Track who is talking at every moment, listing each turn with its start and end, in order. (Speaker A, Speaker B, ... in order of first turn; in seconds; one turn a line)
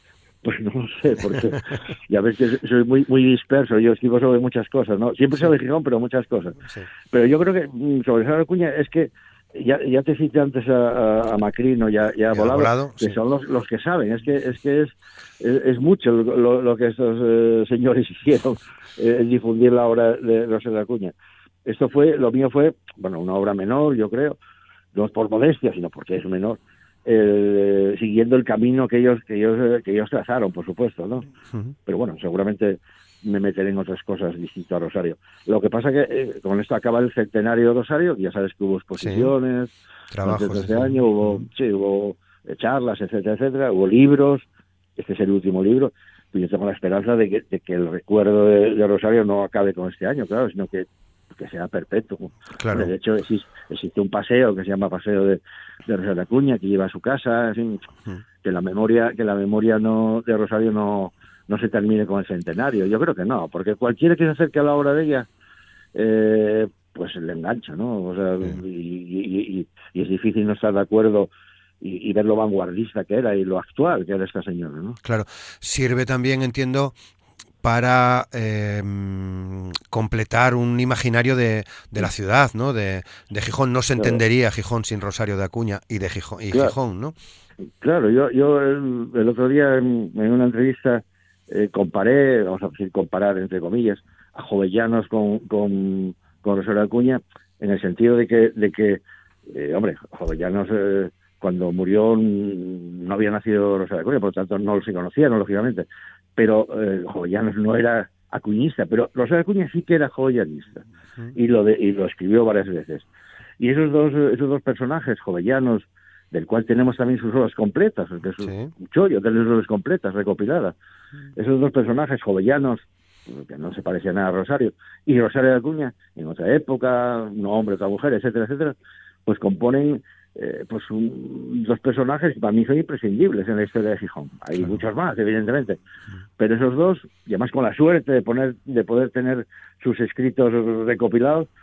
Speaker A: 0.4-6.6
Speaker A: 7.1-21.1
Speaker B: 12.3-13.2
Speaker A: 21.6-24.4
Speaker A: 24.9-31.3
Speaker A: 31.9-44.5
Speaker B: 39.0-39.3
Speaker B: 40.1-41.4
Speaker A: 45.0-57.9
Speaker B: 52.6-52.9
Speaker A: 58.4-65.3
Speaker A: 65.9-75.0
Speaker B: 75.0-76.9
Speaker B: 77.6-87.1
Speaker A: 87.8-105.8
Speaker A: 106.4-113.0
Speaker A: 113.6-120.7
Speaker B: 118.4-118.7
Speaker A: 121.3-135.8
Speaker A: 136.4-141.5